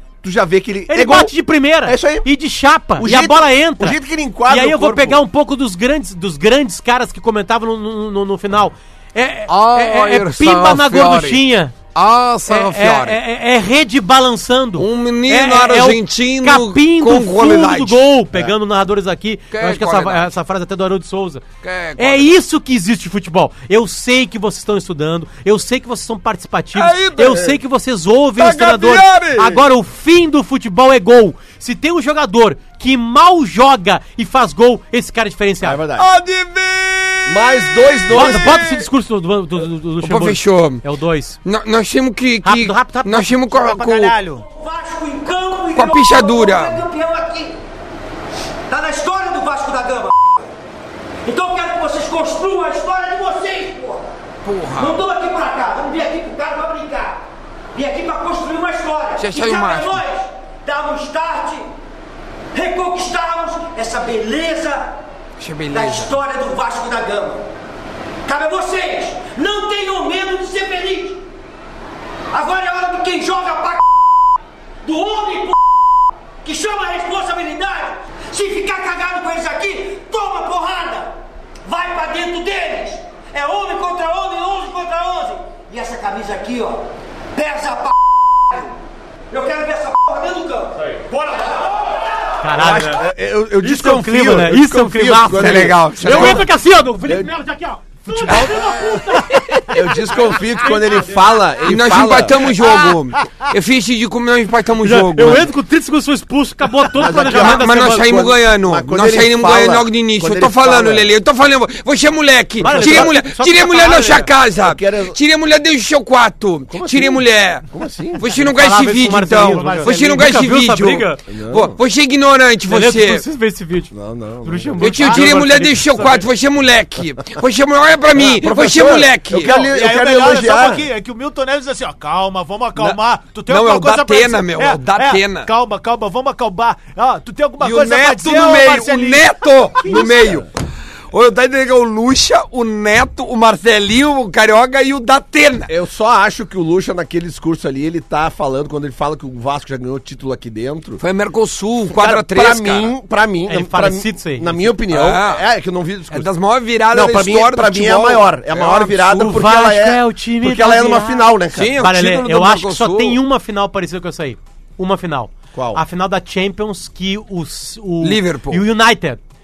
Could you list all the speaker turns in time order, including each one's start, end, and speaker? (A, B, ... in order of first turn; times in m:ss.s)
0:00.2-0:02.3 A
0:00.9-0:11.8 B
0:03.0-0:05.2 A
0:09.5-0:11.4 C
0:11.9-0:13.2 C
0:12.5-0:21.4 B
0:14.8-0:18.4 C
0:19.5-0:20.3 C
0:21.6-0:22.4 C
0:22.0-0:35.8 B
0:26.7-0:27.6 C
0:28.4-0:29.6 C
0:35.6-0:36.1 A
0:36.0-0:38.8 C
0:37.3-0:38.6 A
0:38.1-0:41.4 B
0:40.0-0:40.8 C
0:41.4-0:44.2 C
0:42.4-0:43.4 B
0:43.5-0:44.5 D
0:44.5-0:47.6 E
0:45.7-0:46.8 C
0:48.7-0:50.1 E
0:51.2-0:54.1 E
0:54.4-0:55.0 C
0:54.7-0:57.2 E
0:57.7-1:01.7 E
0:59.2-1:00.0 C
1:02.5-1:05.0 E
1:05.4-1:06.2 C
1:05.7-1:07.5 E
1:08.3-1:11.2 E
1:12.3-1:13.8 E
1:14.8-1:15.6 E
1:16.4-1:28.0 E
1:29.3-1:32.4 E
1:32.4-1:33.0 B
1:32.6-1:36.5 A
1:33.6-1:41.2 B
1:35.3-1:36.5 C
1:37.0-1:37.3 A
1:38.1-1:39.8 D
1:39.7-1:42.6 A
1:41.6-1:45.5 C
1:42.6-1:43.4 D
1:44.8-1:48.1 B
1:47.0-1:51.1 A
1:47.3-1:57.6 C
1:52.6-1:54.3 B
1:52.6-1:53.2 A
1:54.6-1:55.2 A
1:56.7-1:58.3 A
1:58.2-2:03.2 C
1:58.3-2:01.2 B
1:59.3-2:00.0 D
2:01.3-2:01.8 A
2:02.7-2:06.3 B
2:03.9-2:05.3 A
2:04.8-2:09.6 C
2:08.1-2:10.9 A
2:09.4-2:20.2 D
2:12.8-2:15.5 C
2:17.6-2:20.5 C
2:19.9-2:20.5 A
2:21.1-2:25.7 C
2:25.7-2:31.0 A
2:31.0-2:32.9 C
2:31.9-2:36.3 A
2:33.5-2:34.8 B
2:34.9-2:35.4 C
2:36.1-2:39.4 C
2:36.9-2:41.8 A
2:39.2-2:49.2 B
2:41.5-2:43.2 C
2:45.5-2:45.8 A
2:48.0-2:48.6 C